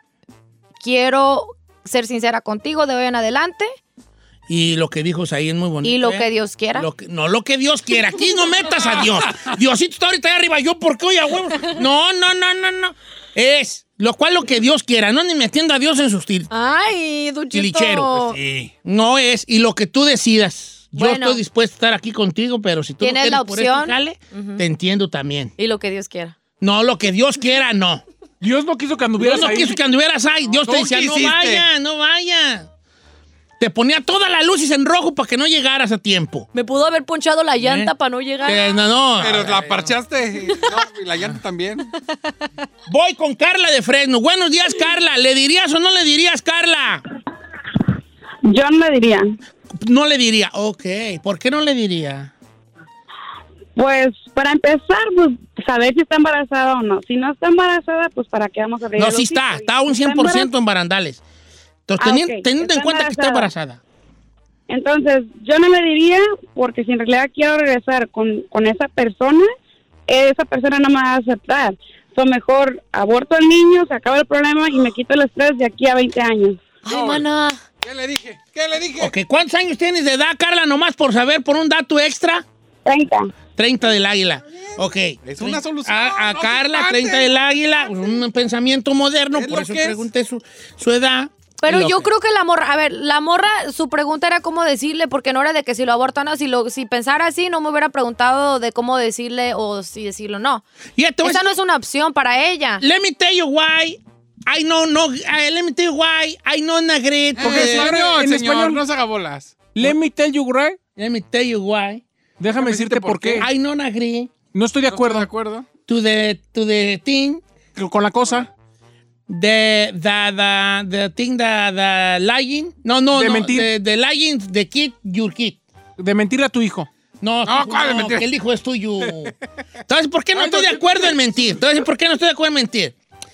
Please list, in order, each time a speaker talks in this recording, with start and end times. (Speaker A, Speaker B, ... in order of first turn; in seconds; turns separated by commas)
Speaker A: 0.8-3.7, Speaker B: 4.5-16.5, Speaker A: 5.8-6.9, Speaker A: 16.5-18.4, Speaker B: 17.5-18.2, Speaker C: 18.1-18.7, Speaker B: 18.8-25.5, Speaker A: 20.9-21.4, Speaker A: 23.0-24.6, Speaker A: 25.6-26.4, Speaker B: 26.6-28.0, Speaker D: 28.4-29.8, Speaker B: 29.2-32.7, Speaker C: 30.6-31.7, Speaker B: 33.6-36.5, Speaker A: 36.5-38.7, Speaker B: 37.6-37.9, Speaker B: 38.4-40.0, Speaker C: 39.2-41.9, Speaker B: 42.9-47.0, Speaker E: 48.5-49.3, Speaker B: 49.7-52.3, Speaker E: 53.8-60.5, Speaker B: 59.0-61.2, Speaker B: 61.9-63.8, Speaker E: 62.0-63.5, Speaker E: 64.7-69.5, Speaker E: 70.1-76.6, Speaker A: 76.8-77.6, Speaker C: 76.9-77.3, Speaker C: 77.8-79.1, Speaker B: 79.0-82.5, Speaker E: 82.9-83.3, Speaker B: 83.6-92.1, Speaker C: 85.2-87.3, Speaker C: 89.3-90.0, Speaker A: 91.6-100.6, Speaker B: 101.0-101.5, Speaker A: 101.2-102.8, Speaker B: 102.8-108.0, Speaker C: 107.4-109.7, Speaker D: 107.4-108.8, Speaker D: 109.7-110.8, Speaker B: 111.0-112.0, Speaker D: 112.4-113.5, Speaker C: 112.5-113.5, Speaker B: 113.4-114.3, Speaker D: 114.5-115.3, Speaker C: 114.9-115.7, Speaker B: 115.9-117.4, Speaker D: 117.8-118.5, Speaker B: 119.3-125.6, Speaker D: 123.1-123.7, Speaker D: 126.0-126.9, Speaker B: 127.2-129.3, Speaker C: 127.5-128.3, Speaker B: 129.9-132.9, Speaker C: 130.4-131.2